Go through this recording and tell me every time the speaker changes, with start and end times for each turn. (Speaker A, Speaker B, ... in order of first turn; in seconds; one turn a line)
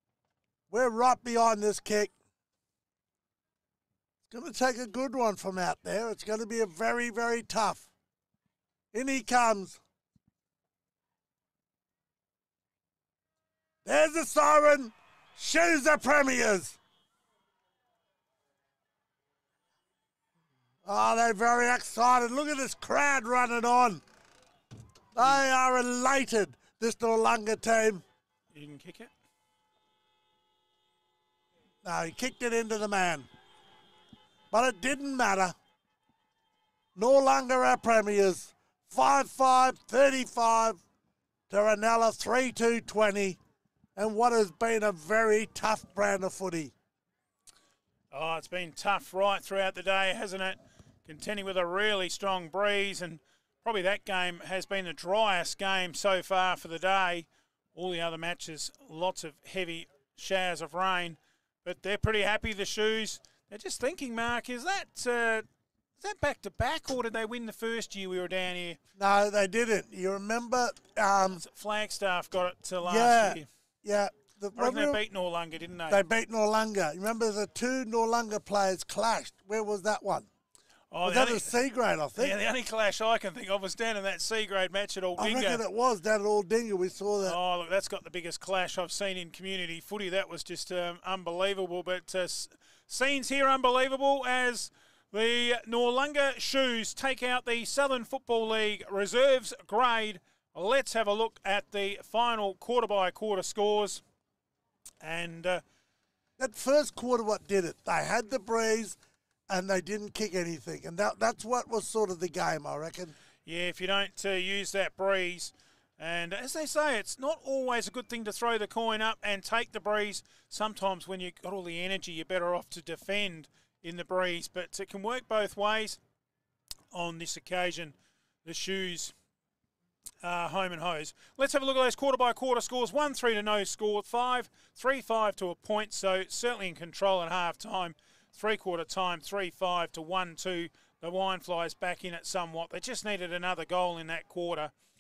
Speaker A: 0.7-2.1
Speaker A: 4.3-7.9
Speaker A: 8.9-9.8
Speaker A: 13.8-16.8
Speaker A: 20.9-24.0
Speaker A: 25.1-28.0
Speaker B: 28.5-29.1
Speaker A: 31.8-33.3
Speaker A: 34.5-35.6
Speaker A: 37.0-40.8
Speaker A: 41.5-43.4
Speaker A: 44.0-46.7
Speaker B: 48.1-65.5
Speaker B: 66.0-68.8
Speaker A: 69.0-71.4
Speaker B: 71.4-73.5
Speaker A: 72.8-75.0
Speaker B: 74.6-76.0
Speaker A: 75.9-80.3
Speaker B: 80.9-81.5
Speaker A: 81.0-82.4
Speaker B: 82.2-85.6
Speaker A: 85.2-87.4
Speaker B: 87.3-104.0
Speaker B: 105.0-105.6
Speaker A: 106.4-109.0
Speaker A: 109.5-113.2
Speaker B: 113.5-126.0
Speaker B: 126.9-127.9
Speaker B: 128.4-129.1
Speaker B: 130.2-144.7